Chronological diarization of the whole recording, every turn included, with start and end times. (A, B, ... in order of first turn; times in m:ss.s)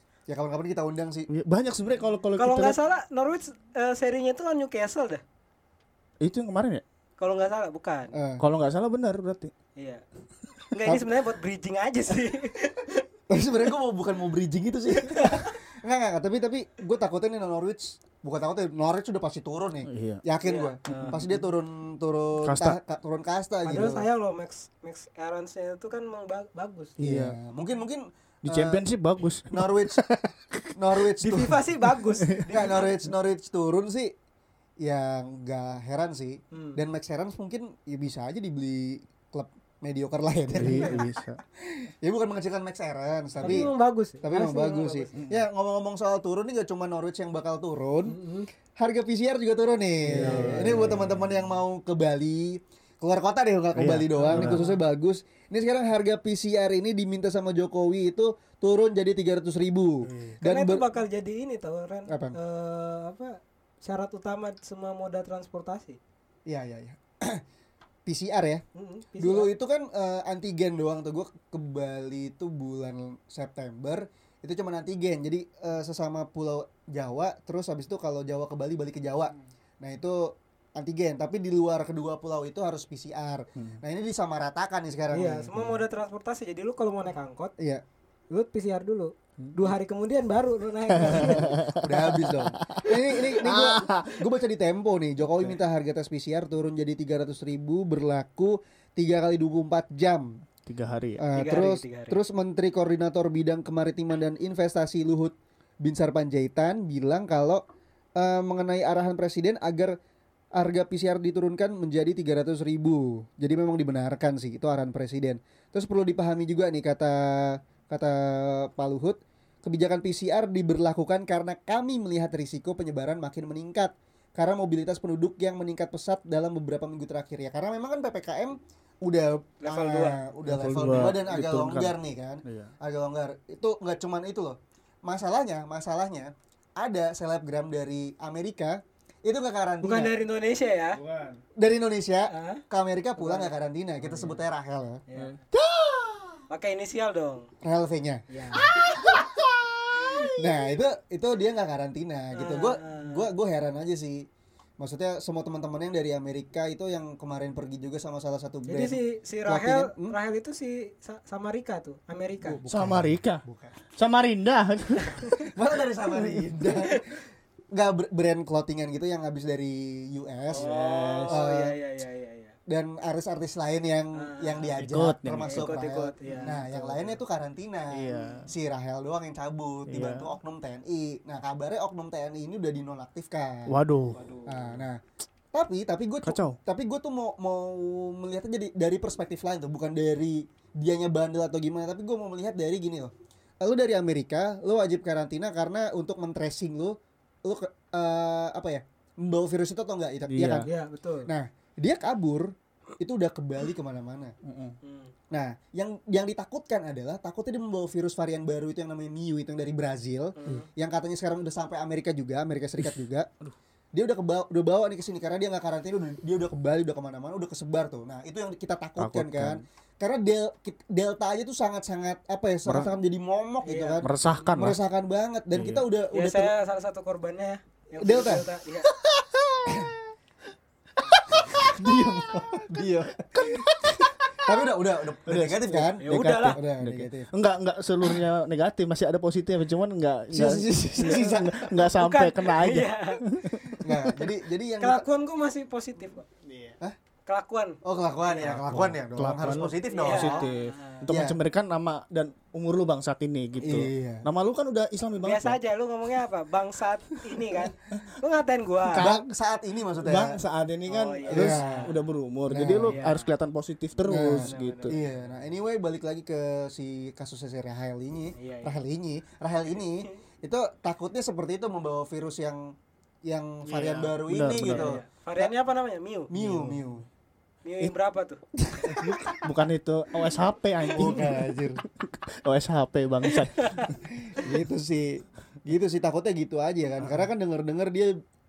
0:00.3-0:01.3 A
0:01.3-0:02.8 B
0:02.3-0:05.2 C
0:06.2-0:06.8 B
0:07.2-0:08.1 C
0:08.1-0:08.4 A
0:08.4-0:09.5 B
0:09.8-0:10.0 C
0:10.7-0:13.0 C
0:13.3-0:24.0 A
0:15.1-0:15.6 C
0:19.8-0:20.2 B
0:20.4-0:21.2 C
0:20.9-0:21.3 B
0:22.4-0:22.8 B
0:23.6-0:27.0 C
0:23.7-0:24.0 B
0:27.0-0:27.4 B
0:27.0-0:28.8 A
0:28.4-0:30.7 B
0:29.5-0:30.0 A
0:30.7-0:31.7 A
0:31.2-0:33.0 C
0:32.4-0:34.1 A
0:34.8-0:41.0 A
0:36.5-0:36.8 C
0:40.6-0:41.4 B
0:40.7-0:41.0 C
0:41.6-0:48.2 A
0:43.4-0:45.1 C
0:43.4-0:43.7 B
0:45.1-0:45.4 B
0:48.0-0:48.5 C
0:48.7-1:00.8 A
0:50.0-0:51.4 B
0:50.1-0:50.8 C
0:53.7-0:54.7 B
0:54.2-0:54.8 C
1:00.0-1:00.4 B
1:00.4-1:06.0 C
1:02.1-1:02.4 A
1:06.5-1:07.4 A
1:08.0-1:08.6 A
1:08.7-1:09.5 C
1:09.2-1:25.5 A
1:25.1-1:27.5 C
1:25.5-1:25.8 B
1:28.3-1:31.6 C
1:29.4-1:29.6 B
1:30.9-1:34.2 B
1:31.0-1:40.4 A
1:40.6-1:41.2 B
1:41.2-1:47.6 A
1:41.3-1:42.2 C
1:48.2-1:50.0 A
1:50.5-2:20.2 A
2:09.6-2:10.2 C
2:10.4-2:12.7 B
2:19.8-2:21.0 C
2:20.9-2:21.4 B
2:21.6-2:25.0 A
2:22.3-2:22.6 C
2:23.2-2:23.5 C
2:24.0-2:24.4 B
2:25.1-2:25.4 C
2:25.1-2:26.4 B
2:26.5-2:27.5 C
2:27.6-2:29.3 A
2:28.3-2:28.7 C
2:28.5-2:30.6 B
2:29.9-2:34.3 A
2:32.3-2:33.3 C
2:34.8-2:40.2 A
2:38.7-2:42.6 C
2:42.4-2:43.7 A
2:42.7-2:43.4 B
2:43.9-2:45.4 B
2:45.4-2:47.0 A
2:46.1-2:46.5 B
2:47.7-2:50.6 A
2:50.5-2:52.5 C
2:50.5-2:51.4 B
2:51.3-2:51.8 A
2:52.7-3:03.8 A
2:54.2-2:54.7 C
2:54.8-2:56.6 B
2:55.4-2:57.1 C
2:57.9-2:58.5 B
2:59.9-3:00.3 B
3:03.7-3:04.3 B
3:04.1-3:04.8 C
3:04.4-3:05.0 A
3:05.5-3:20.7 A
3:06.2-3:06.6 B
3:20.3-3:20.7 B
3:20.6-3:21.3 C
3:21.3-3:24.3 A
3:24.4-3:24.8 B
3:24.8-3:25.1 C
3:25.3-3:33.3 A
3:30.4-3:30.7 C
3:33.9-3:46.5 A
3:39.0-3:39.6 B
3:42.6-3:42.9 B
3:43.6-3:44.1 C
3:44.0-3:44.8 B
3:45.5-3:45.8 B
3:46.1-3:48.9 C
3:48.0-3:48.4 A
3:48.9-3:49.9 B
3:49.6-3:49.9 A
3:51.3-3:54.6 B
3:51.3-3:53.7 A
3:54.2-3:57.3 A
3:55.3-4:04.3 B
3:56.0-3:56.6 C
4:00.3-4:01.8 A
4:01.8-4:03.2 C
4:03.7-4:05.0 A
4:04.8-4:06.3 C
4:06.5-4:06.7 B
4:07.2-4:08.6 C
4:07.8-4:10.4 A
4:08.4-4:15.6 B
4:09.8-4:11.0 C
4:11.1-4:11.4 A
4:13.6-4:14.2 A
4:15.2-4:19.1 C
4:18.8-4:19.3 B
4:19.0-4:20.4 A
4:20.0-4:25.0 B
4:20.9-4:22.0 C
4:21.3-4:21.9 A
4:22.5-4:23.0 A
4:22.9-4:23.3 C
4:24.1-4:35.5 A
4:24.2-4:25.1 C
4:28.4-4:28.7 C
4:29.8-4:30.2 C
4:33.6-4:35.0 B
4:34.6-4:36.3 C
4:36.3-4:37.0 A
4:36.3-4:36.8 B
4:37.6-4:38.4 C
4:38.6-4:39.4 A
4:38.8-4:44.0 B
4:40.9-4:41.8 A
4:44.2-4:48.2 A
4:47.0-4:47.3 B